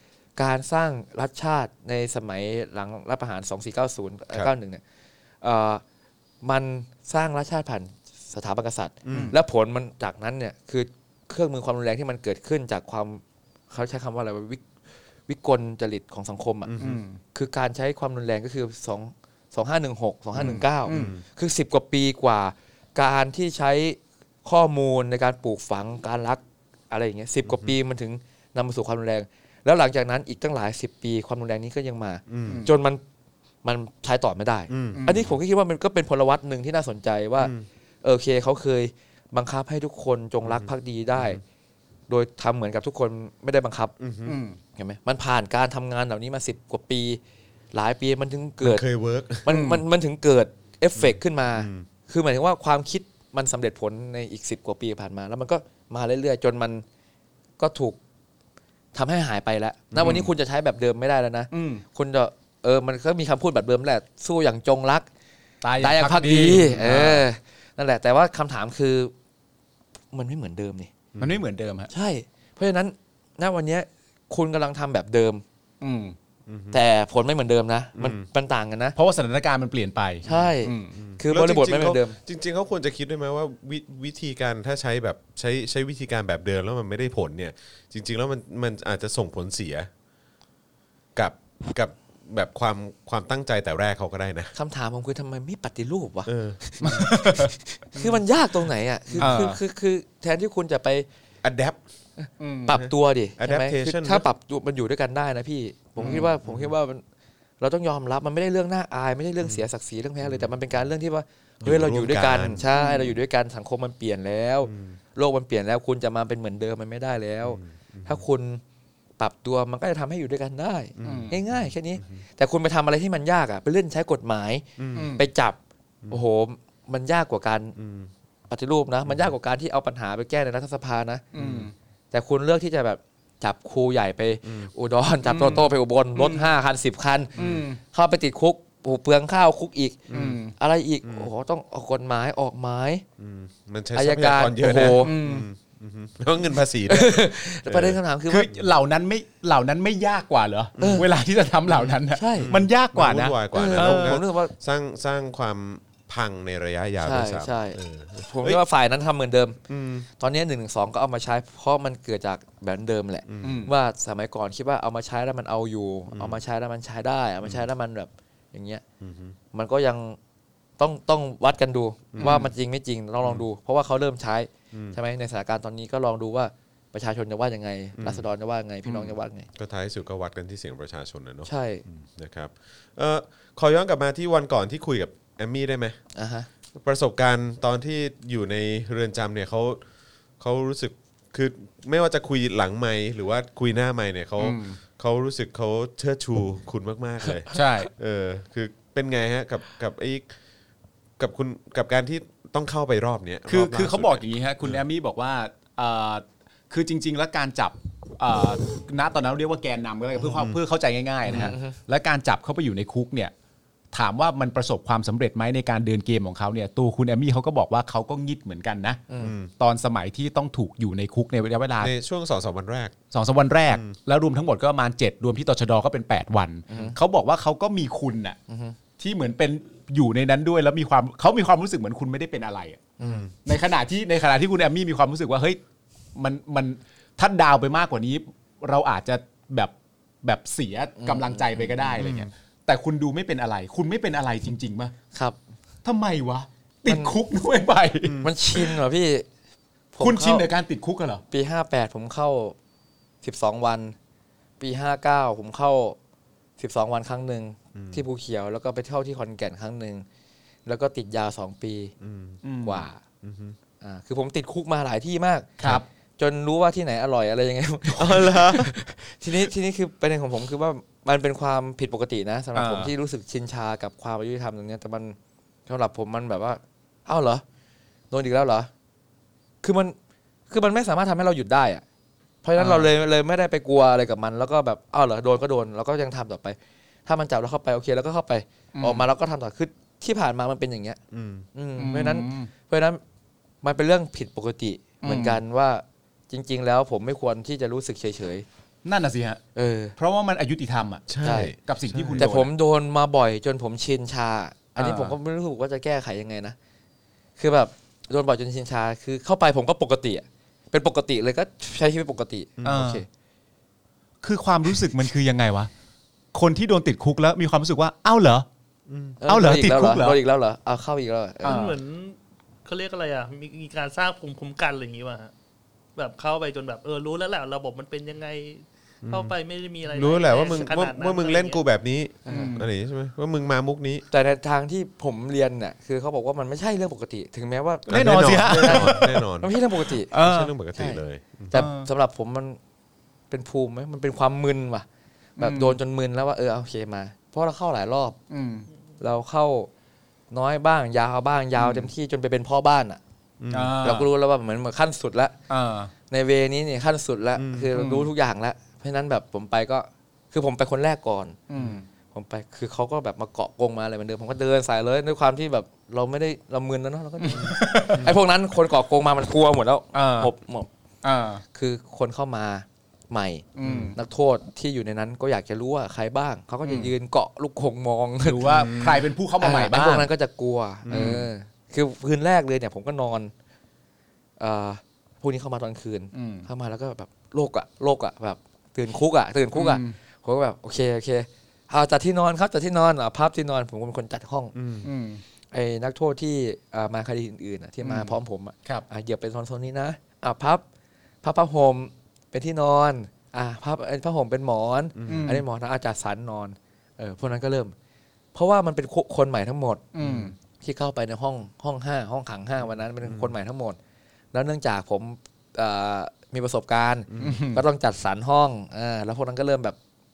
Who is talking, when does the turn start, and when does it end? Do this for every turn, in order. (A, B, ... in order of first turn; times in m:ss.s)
0:00.4-0:04.8 A
0:05.4-0:05.8 A
0:06.4-0:14.6 A
0:09.0-0:09.3 B
0:09.1-0:09.3 C
0:15.3-0:16.7 A
0:16.6-0:17.0 B
0:16.8-0:17.2 C
0:17.3-0:33.0 A
0:20.4-0:21.1 C
0:20.9-0:21.2 B
0:27.4-0:27.7 B
0:32.3-0:32.6 B
0:32.5-0:32.7 C
0:33.6-0:37.5 A
0:34.7-0:35.1 B
0:34.9-0:35.3 C
0:37.4-0:37.6 B
0:38.0-0:41.4 A
0:40.4-0:41.4 B
0:42.1-0:43.9 A
0:44.0-0:44.4 B
0:44.2-0:44.6 C
0:44.8-0:47.2 A
0:47.7-0:48.8 A
0:48.6-0:49.4 B
0:49.4-0:56.8 A
0:49.5-0:49.8 C
0:51.0-0:51.8 B
0:57.6-0:58.0 A
0:58.9-1:05.1 A
0:59.9-1:00.3 C
1:01.5-1:01.8 C
1:05.6-1:07.2 C
1:05.8-1:09.1 A
1:10.1-1:10.9 A
1:11.1-1:11.4 B
1:11.2-1:11.9 C
1:11.9-1:15.4 A
1:15.8-1:16.2 C
1:16.5-1:16.8 B
1:16.7-1:19.0 A
1:18.0-1:18.2 B
1:19.0-1:21.0 C
1:20.2-1:22.2 A
1:20.2-1:29.9 B
1:31.2-1:34.5 B
1:34.5-1:41.0 A
1:36.3-1:37.1 B
1:36.8-1:37.5 C
1:37.9-1:38.2 B
1:39.1-1:39.3 B
1:39.2-1:39.6 C
1:41.4-1:41.8 B
1:42.2-1:47.0 A
1:42.4-1:42.8 C
1:42.7-1:44.2 B
1:46.0-1:46.7 B
1:46.0-1:46.2 C
1:47.6-1:58.6 A
1:50.2-1:50.5 B
1:51.6-1:53.1 B
1:54.6-1:55.0 B
1:57.4-1:58.2 B
1:59.2-2:05.6 A
2:01.0-2:02.2 B
2:01.0-2:01.3 C
2:04.8-2:05.1 B
2:04.9-2:05.2 C
2:06.1-2:07.8 A
2:07.8-2:08.1 B
2:08.5-2:11.2 A
2:11.3-2:11.7 C
2:11.4-2:11.7 B
2:12.1-2:20.0 A
2:14.4-2:14.7 B
2:15.2-2:16.5 C
2:17.4-2:17.8 C
2:20.1-2:20.4 B
2:20.1-2:20.5 C
2:20.6-2:23.0 A
2:23.2-2:28.0 B
2:23.9-2:25.2 A
2:24.7-2:25.4 C
2:26.9-2:28.5 A
2:28.3-2:34.2 C
2:30.8-2:31.0 B
2:30.8-2:31.0 A
2:31.7-2:38.6 B
2:32.1-2:32.5 A
2:33.5-2:34.5 A
2:37.0-2:39.6 A
2:39.7-2:40.1 B
2:40.2-2:48.8 A
2:43.3-2:43.6 B
2:43.4-2:43.7 C
2:46.1-2:46.4 B
2:49.0-2:49.4 B
2:49.5-2:50.2 A
2:50.8-2:59.5 A
2:52.1-2:52.4 B
2:52.2-2:52.5 C
2:54.7-2:55.0 B
2:58.0-2:58.2 B
2:59.6-3:06.0 B
3:01.4-3:01.8 A
3:06.1-3:06.5 A
3:06.8-3:09.8 B
3:10.4-3:20.3 B
3:14.4-3:14.8 C
3:17.5-3:17.9 C
3:21.2-3:24.8 B
3:23.5-3:33.3 C
3:30.2-3:30.6 B
3:31.2-3:31.8 A
3:33.9-3:41.9 C
3:39.1-3:39.3 A
3:39.2-3:39.5 B
3:41.8-3:43.0 B
3:43.1-3:48.4 C
3:43.7-3:44.0 B
3:46.7-3:47.0 A
3:48.5-3:48.8 A
3:49.0-3:55.6 C
3:53.0-3:53.2 A
3:53.0-3:53.3 B
3:56.1-4:04.9 C
4:01.0-4:02.0 A
4:02.0-4:02.3 B
4:05.8-4:08.2 C
4:06.8-4:07.1 A
4:08.0-4:08.3 B
4:08.2-4:09.2 A
4:09.9-4:10.5 A
4:10.0-4:11.2 C
4:11.3-4:12.6 A
4:13.2-4:13.9 A
4:14.6-4:16.0 A
4:16.6-4:20.0 A
4:17.7-4:18.0 B
4:20.6-4:21.9 A
4:22.0-4:22.4 B
4:22.4-4:22.8 C
4:22.6-4:23.0 A
4:23.2-4:23.6 B
4:23.8-4:35.2 A
4:25.6-4:25.8 C
4:28.0-4:28.7 B
4:32.5-4:32.9 C
4:35.7-4:37.4 A
4:38.1-4:38.7 A
4:39.6-4:40.0 A
4:40.5-4:41.8 A
4:42.4-4:51.0 A
4:42.6-4:42.9 C
4:48.7-4:49.0 C
4:51.1-4:51.4 B
4:51.5-4:53.0 A
4:51.8-4:52.5 C
4:53.6-4:58.4 A
4:55.0-4:55.4 C
4:58.8-4:59.4 C
4:59.5-4:59.9 A
5:00.0-5:02.5 C
5:01.1-5:02.3 B
5:01.2-5:01.5 A
5:02.1-5:06.6 A
5:04.8-5:05.2 C
5:07.4-5:13.0 A
5:12.6-5:12.9 B
5:12.6-5:13.0 C
5:14.2-5:15.7 C
5:16.3-5:18.5 C
5:18.9-5:19.2 B
5:19.2-5:21.7 A
5:19.2-5:20.2 C
5:21.4-5:21.8 C
5:21.4-5:25.3 D
5:26.0-5:31.6 D
5:29.0-5:29.3 B
5:29.9-5:34.0 B
5:32.2-5:32.6 A
5:32.3-5:32.7 C
5:34.1-5:40.1 A
5:37.9-5:39.6 B
5:37.9-5:39.2 C
5:39.8-5:40.5 C
5:40.1-5:41.5 B
5:41.5-5:42.6 A
5:41.5-5:41.9 C
5:43.3-5:44.8 A
5:45.4-5:45.8 C
5:45.4-5:48.2 A
5:48.3-5:48.6 C
5:49.0-5:49.7 A
5:50.3-5:53.0 A
5:51.6-5:51.9 C
5:53.4-5:53.8 B
5:53.5-5:54.1 C
5:53.8-5:55.4 A
5:55.5-5:55.9 C
5:56.1-6:01.4 A
5:57.4-5:57.7 B
5:57.7-5:58.1 C
6:01.5-6:01.8 C
6:02.1-6:10.7 A
6:07.2-6:08.1 C
6:07.3-6:08.1 B
6:09.9-6:10.3 C
6:11.0-6:11.4 C
6:11.5-6:18.5 A
6:13.6-6:14.0 C
6:13.6-6:13.9 B
6:16.6-6:16.9 C
6:18.2-6:20.1 C
6:18.4-6:19.0 B
6:19.4-6:23.3 A
6:20.8-6:21.2 B
6:20.9-6:21.3 C
6:24.4-6:34.5 A
6:26.1-6:26.5 C
6:29.5-6:30.0 C
6:34.5-6:34.9 B
6:34.8-6:35.2 C
6:35.5-6:40.6 A
6:37.8-6:38.8 C
6:41.2-6:47.7 A
6:45.0-6:45.2 B
6:45.1-6:45.4 C
6:48.3-6:49.8 A
6:49.9-6:50.3 C
6:50.0-6:50.3 B
6:50.6-6:53.8 A
6:53.0-6:53.3 B
6:54.3-6:59.8 A
6:57.1-6:57.4 B
6:57.2-6:57.6 C